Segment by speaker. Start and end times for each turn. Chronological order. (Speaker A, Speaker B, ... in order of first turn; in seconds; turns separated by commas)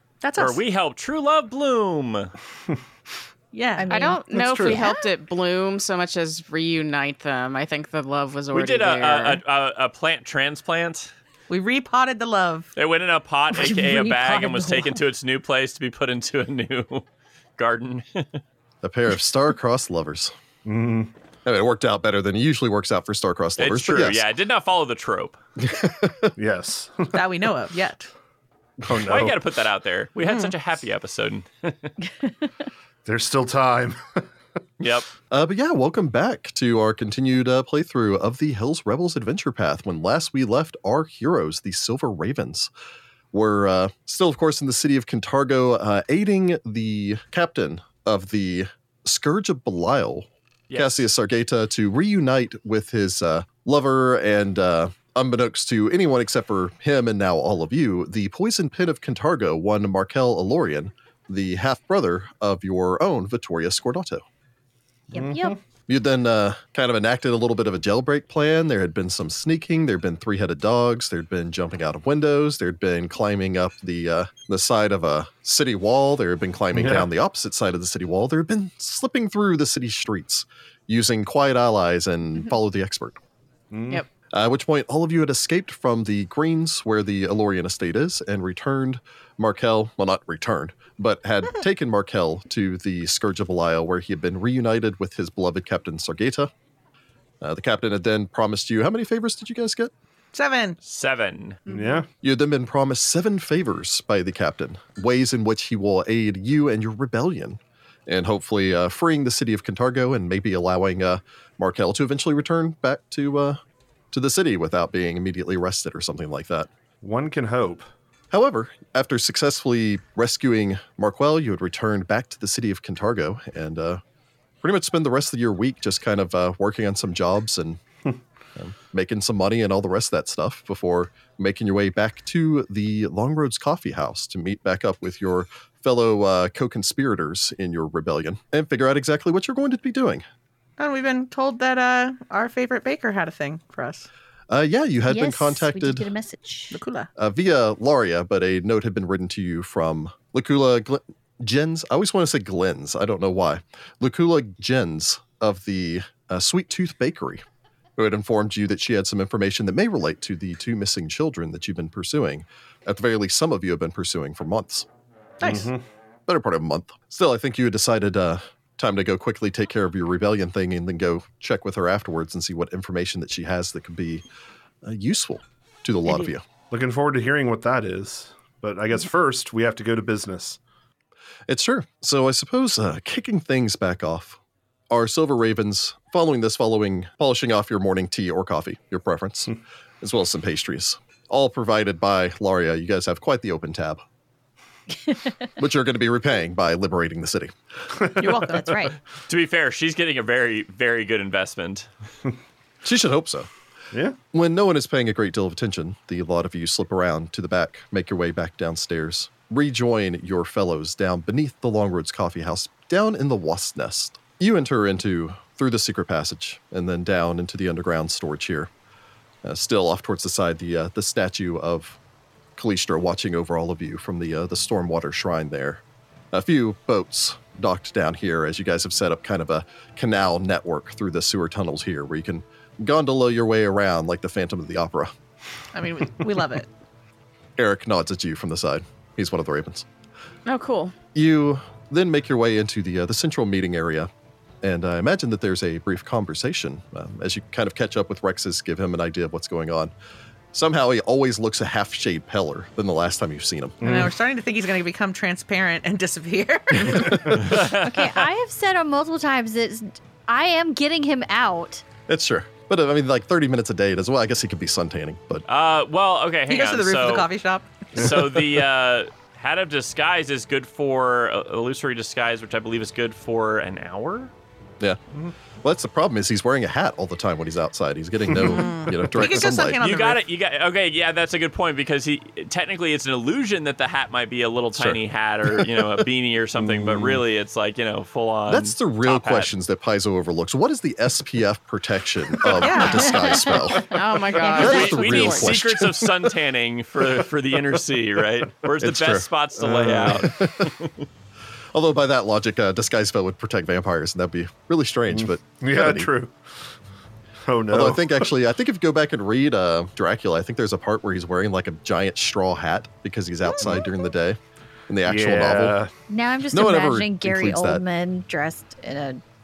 Speaker A: 0.2-0.6, Speaker B: 0.4-2.3, Speaker A: 3.5-3.9, Speaker C: 3.8-4.9, Speaker D: 3.9-9.4, Speaker E: 4.3-4.8, Speaker B: 8.5-11.1, Speaker A: 11.5-12.7, Speaker B: 12.8-17.0, Speaker C: 13.5-15.0, Speaker B: 17.6-18.4, Speaker F: 18.8-20.3, Speaker E: 20.6-21.1, Speaker F: 21.4-24.2, Speaker B: 23.6-25.4, Speaker F: 25.6-26.3, Speaker E: 26.4-27.2, Speaker A: 27.1-28.1, Speaker E: 28.9-29.4, Speaker B: 28.9-31.9, Speaker A: 30.2-30.5, Speaker E: 33.0-34.2, Speaker B: 34.8-35.1, Speaker F: 35.3-42.7, Speaker F: 43.3-64.2, Speaker B: 50.7-51.0, Speaker E: 65.1-65.5, Speaker C: 65.1-65.5, Speaker F: 65.9-83.2, Speaker E: 76.7-77.1, Speaker E: 83.7-84.0, Speaker F: 84.3-96.5, Speaker F: 97.4-99.9, Speaker A: 100.3-100.8, Speaker B: 100.8-101.6, Speaker E: 101.7-102.1, Speaker F: 102.2-113.6, Speaker F: 114.1-116.7, Speaker E: 117.0-117.9, Speaker F: 118.3-124.0, Speaker F: 124.6-127.8, Speaker F: 128.6-140.2, Speaker A: 140.8-144.1, Speaker F: 144.5-146.1, Speaker C: 145.1-146.8, Speaker A: 146.7-147.1, Speaker F: 147.2-157.4, Speaker F: 158.0-164.9, Speaker A: 165.4-165.7, Speaker E: 165.4-165.8, Speaker F: 166.3-174.2, Speaker F: 174.8-176.4, Speaker E: 176.7-180.6, Speaker F: 181.5-194.0, Speaker F: 195.6-197.5, Speaker C: 198.2-198.9, Speaker B: 199.3-201.9, Speaker F: 202.8-203.5, Speaker F: 204.3-218.7, Speaker F: 219.4-222.0, Speaker F: 222.6-235.1, Speaker A: 235.7-236.7, Speaker F: 237.6-239.8, Speaker D: 240.4-240.9, Speaker F: 241.1-244.1, Speaker F: 244.6-249.9, Speaker F: 250.5-253.9, Speaker A: 253.8-257.5, Speaker E: 253.8-254.1, Speaker E: 256.9-257.5, Speaker B: 257.4-258.2, Speaker C: 257.5-261.8, Speaker F: 262.1-265.4, Speaker B: 265.4-267.3, Speaker A: 266.5-267.9, Speaker B: 267.9-274.3, Speaker F: 275.6-279.8, Speaker A: 278.4-280.2, Speaker B: 279.8-289.5, Speaker F: 284.7-286.0, Speaker E: 286.6-287.2, Speaker F: 288.5-296.3, Speaker A: 292.6-293.2, Speaker D: 293.0-293.3, Speaker D: 293.8-295.5, Speaker B: 294.4-301.0, Speaker F: 298.8-299.3, Speaker E: 299.6-300.3, Speaker F: 300.1-300.7, Speaker F: 301.7-306.1, Speaker E: 305.1-306.4, Speaker E: 307.4-308.3, Speaker F: 307.7-314.4, Speaker F: 314.9-315.8, Speaker E: 315.1-315.9, Speaker C: 316.1-319.2, Speaker F: 316.5-317.8